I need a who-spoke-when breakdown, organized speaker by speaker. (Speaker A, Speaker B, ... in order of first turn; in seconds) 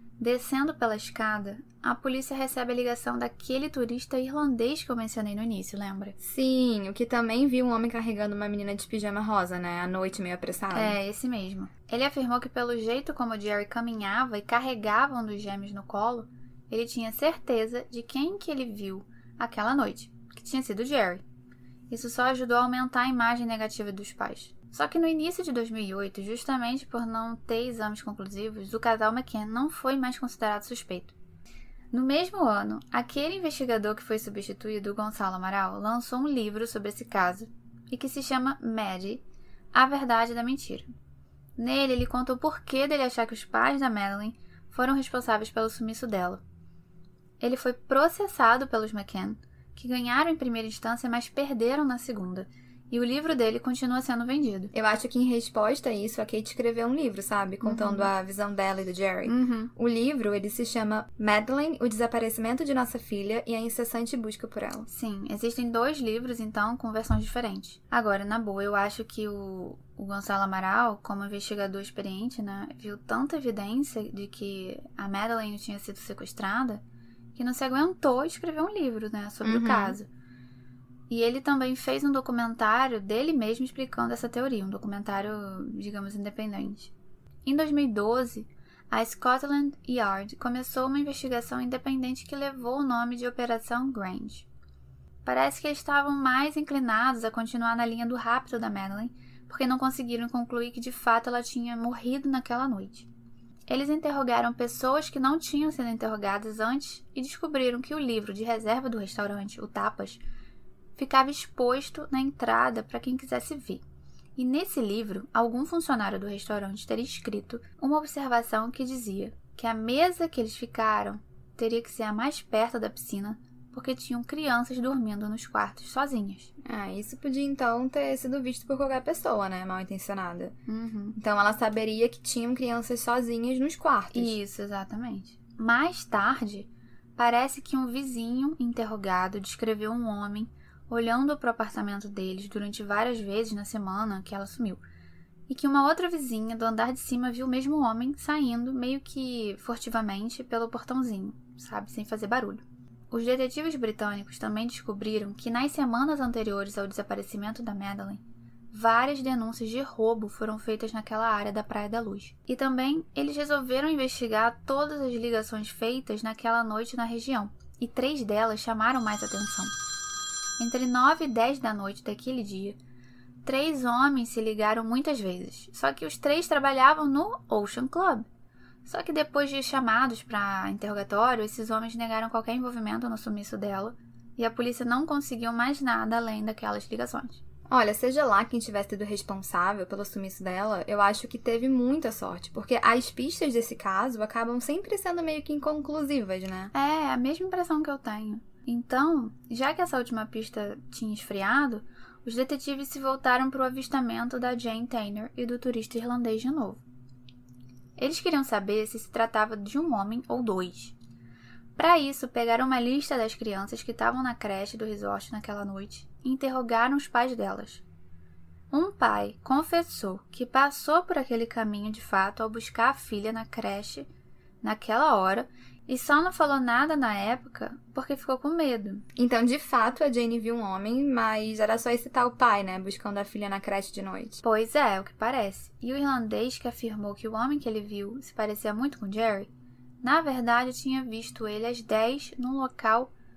Speaker A: 0.2-6.2, 10.7-21.2, 21.9-31.1, 31.9-39.2, 39.7-40.9, 41.6-46.4, 47.4-54.7, 57.6-58.1, 59.2-59.7, 64.9-76.8, 77.3-80.1, 81.1-86.9, 87.5-94.5, 95.2-103.1, 103.7-110.2, 111.0-113.8, 114.3-126.5, 130.7-131.2, 134.1-144.8, 145.5-169.8, 170.6-172.8, 173.4-178.3, 178.8-187.4, 196.7-206.8, 208.0-210.9, 211.8-217.8, 218.7-224.1, 224.6-229.0, 234.4-239.5, 240.0-243.1
Speaker B: 6.2-11.0, 54.7-64.9, 79.4-80.0, 126.6-130.5, 131.1-134.3, 187.7-196.7, 229.2-234.4